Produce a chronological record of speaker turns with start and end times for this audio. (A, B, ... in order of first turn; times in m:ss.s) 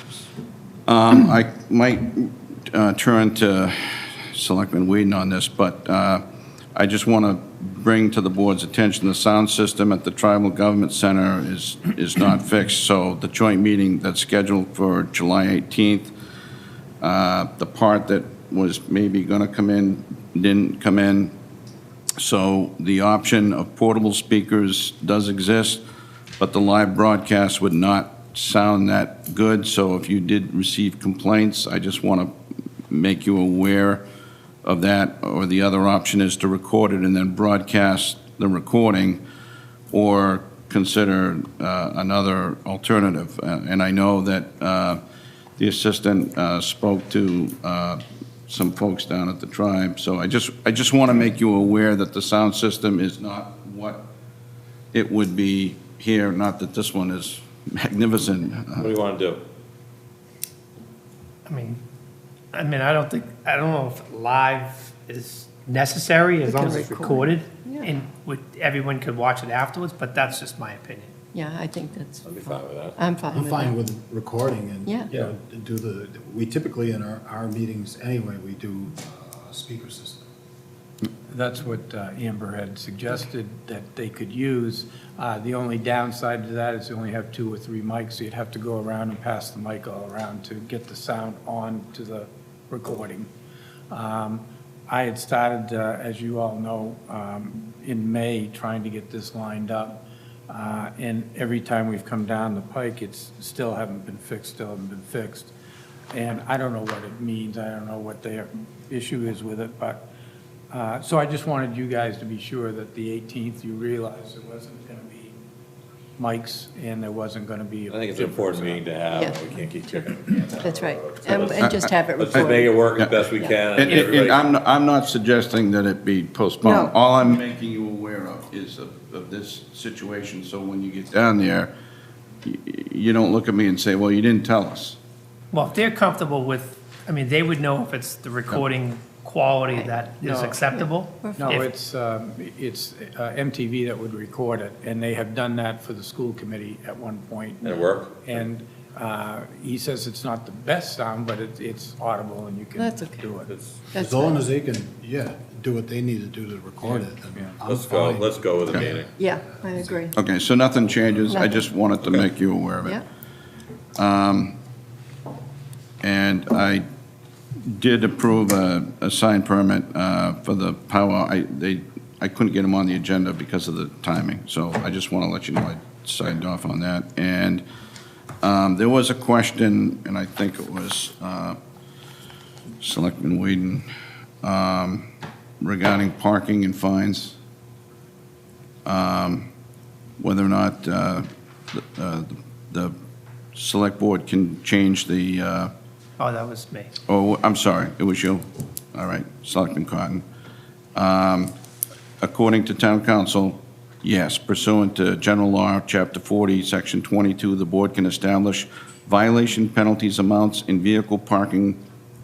0:00.9-0:06.2 A
0:06.7-0:16.1 A
0:17.0-0:21.3 A
0:22.2-0:25.8 A
0:26.4-0:32.3 A
0:32.9-0:34.0 A
0:34.6-0:39.2 A
0:39.9-0:45.0 A
0:45.6-0:54.0 A
0:54.9-0:58.9 A
0:58.8-0:59.4 B
1:01.4-1:01.8 C
1:02.5-1:11.1 C
1:06.4-1:07.9 D
1:11.3-1:13.7 D
1:12.2-1:13.0 B
1:13.3-1:20.2 E
1:14.8-1:15.1 D
1:21.3-1:33.3 F
1:33.9-1:45.5 F
1:46.1-1:50.0 F
1:50.7-1:55.4 F
1:56.2-1:58.9 F
1:57.9-2:04.4 B
1:59.0-2:03.6 D
2:01.6-2:03.1 A
2:03.7-2:11.7 A
2:06.6-2:06.9 D
2:12.4-2:15.0 A
2:15.5-2:21.7 C
2:20.2-2:20.6 F
2:20.7-2:21.7 D
2:21.4-2:33.5 F
2:27.6-2:28.4 B
2:32.7-2:33.4 D
2:33.4-2:33.8 B
2:33.9-2:34.5 D
2:34.0-2:40.0 E
2:37.4-2:37.6 F
2:37.6-2:39.1 B
2:39.2-2:40.1 D
2:40.1-2:43.0 A
2:41.3-2:41.6 D
2:44.0-2:44.6 A
2:46.0-2:46.8 A
2:47.6-2:57.6 A
2:58.4-3:01.6 A
3:02.8-3:03.8 A
3:04.4-3:05.1 A
3:05.6-3:07.4 A
3:08.8-3:09.5 A
3:10.2-3:12.9 A
3:13.5-3:15.7 A
3:16.2-3:16.9 C
3:17.1-3:20.2 A
3:20.9-3:21.5 A
3:22.2-3:31.8 A